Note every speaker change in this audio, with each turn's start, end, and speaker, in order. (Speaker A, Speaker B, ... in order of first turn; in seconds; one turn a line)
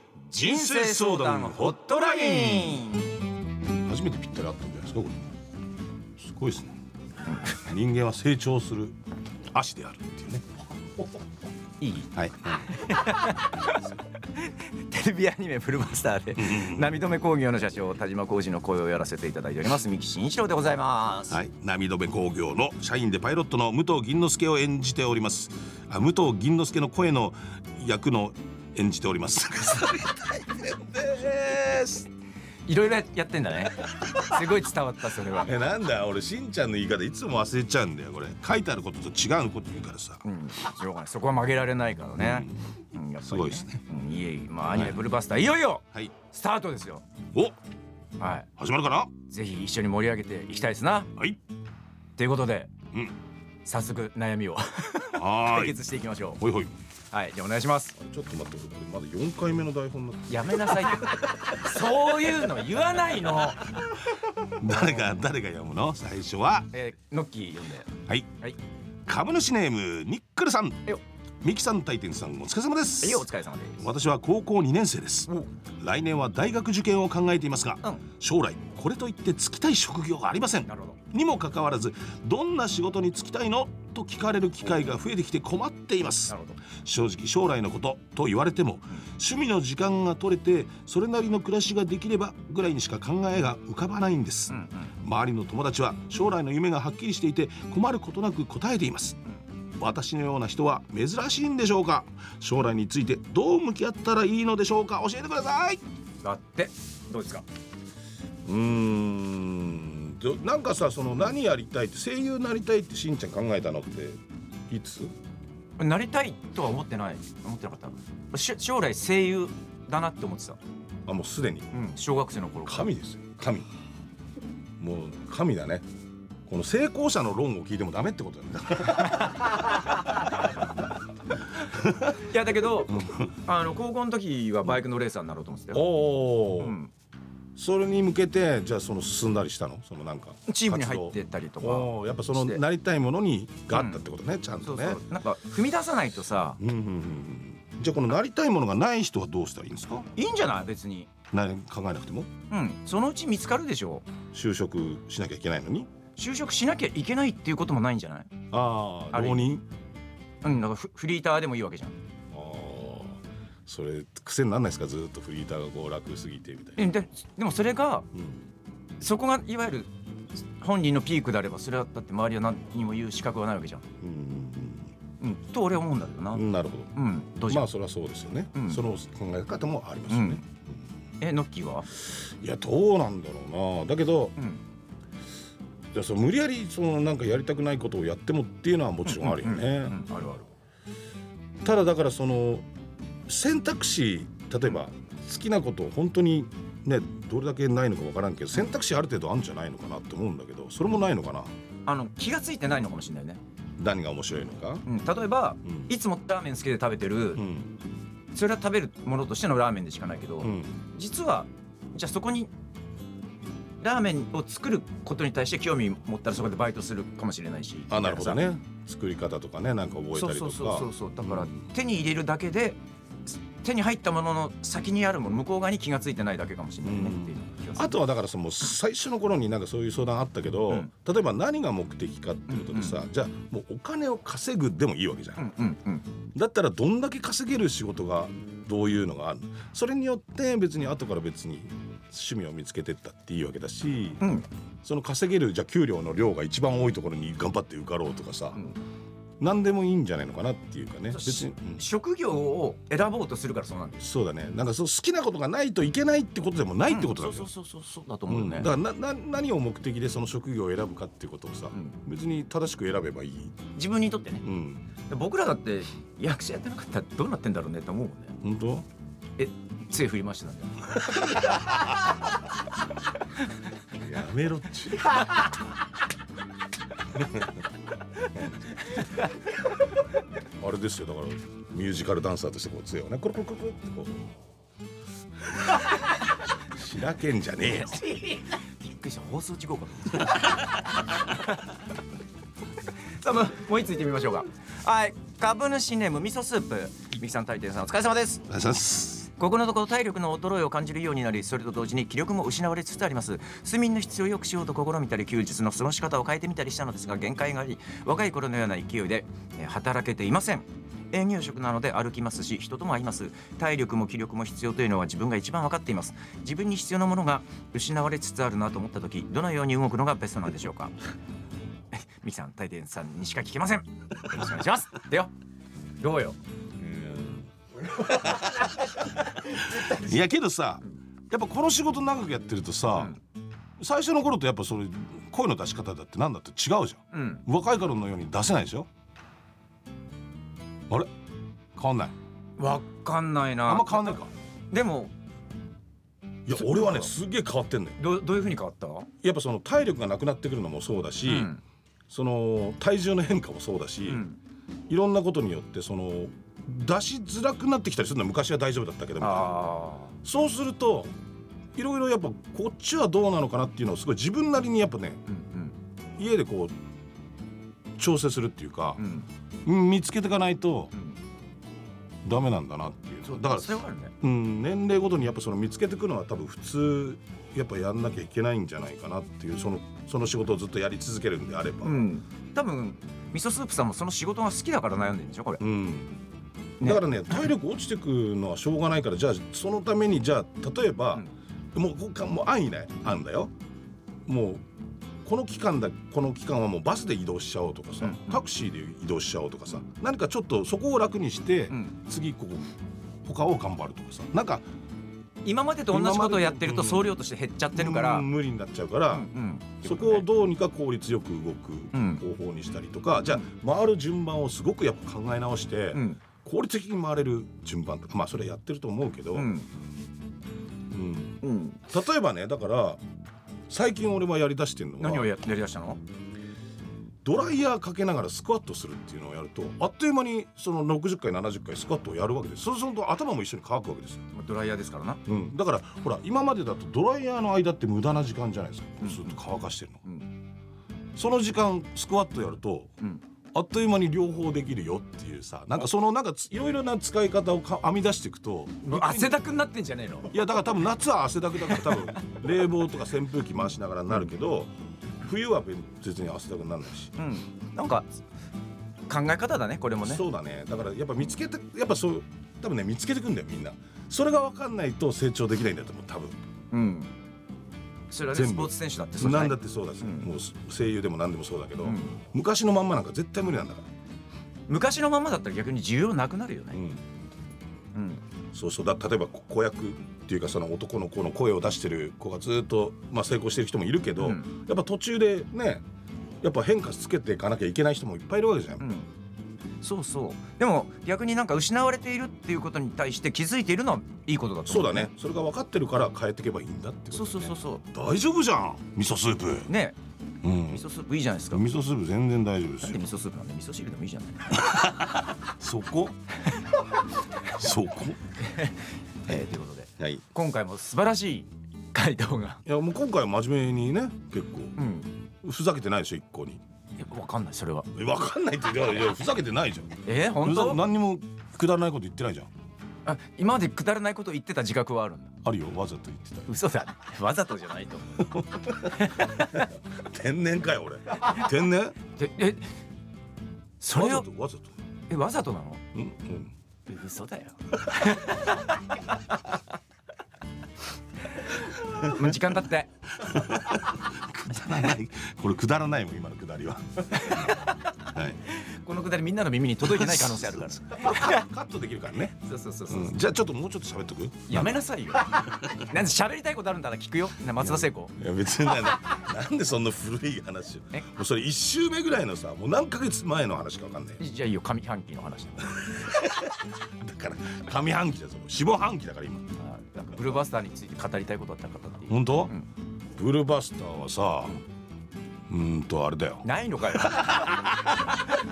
Speaker A: 0.3-3.1
Speaker B: 0.3-2.8
Speaker B: 3.8-5.3
Speaker B: 6.2-6.7
Speaker B: 7.5-9.0
Speaker B: 9.5-10.6
Speaker A: 11.8-21.4
Speaker B: 12.1-12.7
Speaker B: 16.4-16.9
Speaker B: 21.3-32.1
Speaker A: 32.7-35.5
Speaker B: 35.4-40.2
Speaker A: 40.2-47.0
Speaker B: 42.2-43.8
Speaker B: 44.6-45.0
Speaker A: 48.2-48.5
Speaker B: 48.6-49.1
Speaker A: 49.2-51.1
Speaker A: 52.2-52.7
Speaker A: 53.6-56.4
Speaker B: 55.1-55.8
Speaker B: 56.4-56.7
Speaker A: 57.1-58.0
Speaker B: 58.0-61.0
Speaker A: 60.3-63.9
Speaker B: 64.6-66.7
Speaker A: 66.7-67.9
Speaker B: 69.0-70.9
Speaker B: 71.4-73.2
Speaker A: 73.0-73.8
Speaker B: 73.8-99.2
Speaker A: 80.7-81.0
Speaker A: 86.3-86.6
Speaker A: 94.5-94.9
Speaker B: 99.8-105.8
Speaker A: 106.2-107.4
Speaker B: 108.5-115.1
Speaker A: 115.8-120.6
Speaker B: 121.0-121.7
Speaker A: 121.7-122.9
Speaker B: 122.6-123.7
Speaker B: 124.8-125.8
Speaker B: 126.5-130.3
Speaker B: 131.7-132.1
Speaker A: 132.1-135.8
Speaker B: 135.7-136.8
Speaker A: 136.6-136.9
Speaker B: 137.6-145.0
Speaker A: 140.5-142.6
Speaker A: 143.7-144.0
Speaker A: 144.6-146.6
Speaker B: 146.6-150.1
Speaker A: 150.2-151.1
Speaker B: 151.3-152.3
Speaker A: 152.5-154.1
Speaker B: 154.3-155.9
Speaker A: 156.2-158.3
Speaker B: 158.5-159.6
Speaker A: 159.1-159.5
Speaker A: 160.4-162.0
Speaker B: 162.3-166.9
Speaker A: 166.8-168.1
Speaker B: 168.2-168.4
Speaker A: 169.0-169.9
Speaker A: 170.6-173.8
Speaker B: 174.0-174.9
Speaker A: 175.2-176.4
Speaker B: 176.3-176.9
Speaker A: 176.9-177.7
Speaker B: 177.5-180.6
Speaker A: 178.5-178.8
Speaker A: 180.1-180.4
Speaker A: 181.2-181.9
Speaker B: 182.0-184.4
Speaker B: 185.9-190.0
Speaker A: 189.1-190.5
Speaker B: 191.6-192.7
Speaker B: 193.3-201.5
Speaker A: 201.9-203.4
Speaker B: 203.8-204.9
Speaker A: 204.9-207.4
Speaker B: 207.4-207.7
Speaker A: 208.3-212.5
Speaker B: 210.4-210.8
Speaker A: 213.8-218.4
Speaker B: 217.9-221.6
Speaker A: 220.1-228.0
Speaker B: 226.8-235.5
Speaker A: 232.5-233.0
Speaker A: 235.4-236.1
Speaker B: 236.3-244.2
Speaker A: 244.2-244.5
Speaker B: 244.8-248.6
Speaker B: 249.4-251.8
Speaker A: 251.1-254.1
Speaker B: 254.0-257.5
Speaker A: 256.9-258.7
Speaker B: 258.3-263.6
Speaker A: 263.8-264.4
Speaker B: 264.4-264.9
Speaker A: 265.1-268.4
Speaker B: 268.4-268.9
Speaker A: 269.4-271.8
Speaker B: 273.9-275.5
Speaker B: 277.1-277.5
Speaker B: 278.3-278.7
Speaker B: 280.6-284.3
Speaker B: 286.6-288.0
Speaker A: 287.7-291.6
Speaker A: 293.2-298.5
Speaker B: 298.5-299.3
Speaker A: 299.3-320.9
Speaker A: 321.9-325.3
Speaker A: 326.0-326.4
Speaker B: 326.8-327.4
Speaker B: 328.0-328.7
Speaker B: 329.4-333.2
Speaker B: 333.8-338.9
Speaker A: 337.1-337.4
Speaker B: 341.8-342.1
Speaker A: 342.6-345.1
Speaker B: 343.6-344.3
Speaker B: 346.5-348.0
Speaker A: 346.5-347.1
Speaker A: 348.0-349.1
Speaker B: 349.2-351.5
Speaker A: 351.2-351.6
Speaker B: 352.1-354.2
Speaker A: 354.1-354.4
Speaker B: 354.9-359.6
Speaker A: 359.2-360.1
Speaker B: 360.2-361.1
Speaker B: 361.8-365.2
Speaker A: 365.3-365.8
Speaker B: 366.2-366.7
Speaker B: 368.0-369.0
Speaker A: 369.0-369.3
Speaker B: 369.6-370.9
Speaker B: 372.2-382.1
Speaker A: 373.2-374.1
Speaker A: 381.8-385.6
Speaker B: 385.6-386.2
Speaker A: 386.8-387.5
Speaker B: 386.8-393.5
Speaker B: 394.3-394.6
Speaker B: 395.2-402.7
Speaker A: 398.0-398.4
Speaker B: 403.2-404.6
Speaker A: 405.4-408.3
Speaker B: 405.9-407.2
Speaker B: 407.7-409.3
Speaker A: 409.1-410.2
Speaker B: 409.8-419.5
Speaker A: 411.9-412.2
Speaker A: 415.9-416.2
Speaker A: 419.3-419.7
Speaker B: 420.9-423.0
Speaker A: 421.4-421.8
Speaker B: 423.7-425.3
Speaker A: 425.0-426.0
Speaker B: 427.2-434.2
Speaker A: 434.3-435.2
Speaker B: 435.2-440.0
Speaker A: 439.0-439.4
Speaker B: 441.1-442.9
Speaker B: 443.5-449.4
Speaker A: 448.8-450.3
Speaker B: 450.3-457.1
Speaker A: 451.6-452.2
Speaker A: 457.2-458.1
Speaker A: 459.1-460.2
Speaker B: 460.0-466.4
Speaker A: 466.7-467.1
Speaker A: 468.1-470.3
Speaker B: 468.3-473.9
Speaker A: 471.8-472.2
Speaker A: 474.7-476.8
Speaker B: 476.7-477.0
Speaker A: 477.9-478.2
Speaker B: 478.5-485.8
Speaker A: 484.2-484.5
Speaker B: 486.4-488.9
Speaker A: 488.8-489.1
Speaker A: 489.8-495.1
Speaker B: 494.7-499.7
Speaker A: 497.1-497.8
Speaker A: 499.7-500.0
Speaker B: 500.4-500.9
Speaker A: 500.7-501.7
Speaker B: 501.5-503.0
Speaker A: 502.8-504.7
Speaker B: 504.5-506.2
Speaker B: 507.4-508.2
Speaker A: 508.4-512.6
Speaker B: 510.0-510.2
Speaker B: 512.6-514.8
Speaker A: 514.8-515.1
Speaker B: 515.4-516.6
Speaker A: 517.0-517.9
Speaker B: 517.9-522.5
Speaker A: 520.0-520.8
Speaker A: 523.1-525.3
Speaker B: 525.4-526.5
Speaker A: 526.5-529.7
Speaker B: 528.2-532.0
Speaker A: 532.1-532.6
Speaker A: 533.8-534.2
Speaker B: 533.9-534.7
Speaker A: 535.1-535.8
Speaker B: 535.9-536.5
Speaker A: 536.9-538.6
Speaker A: 541.5-542.9
Speaker B: 543.1-548.4
Speaker A: 547.1-547.9
Speaker A: 548.5-551.4
Speaker B: 549.9-552.4
Speaker A: 552.4-553.1
Speaker B: 552.9-554.8
Speaker A: 554.5-558.1
Speaker B: 557.6-564.2
Speaker A: 564.2-566.1
Speaker B: 565.8-569.5
Speaker A: 569.6-572.6
Speaker B: 572.1-572.5
Speaker B: 573.2-574.6
Speaker B: 575.5-578.1
Speaker A: 576.4-577.7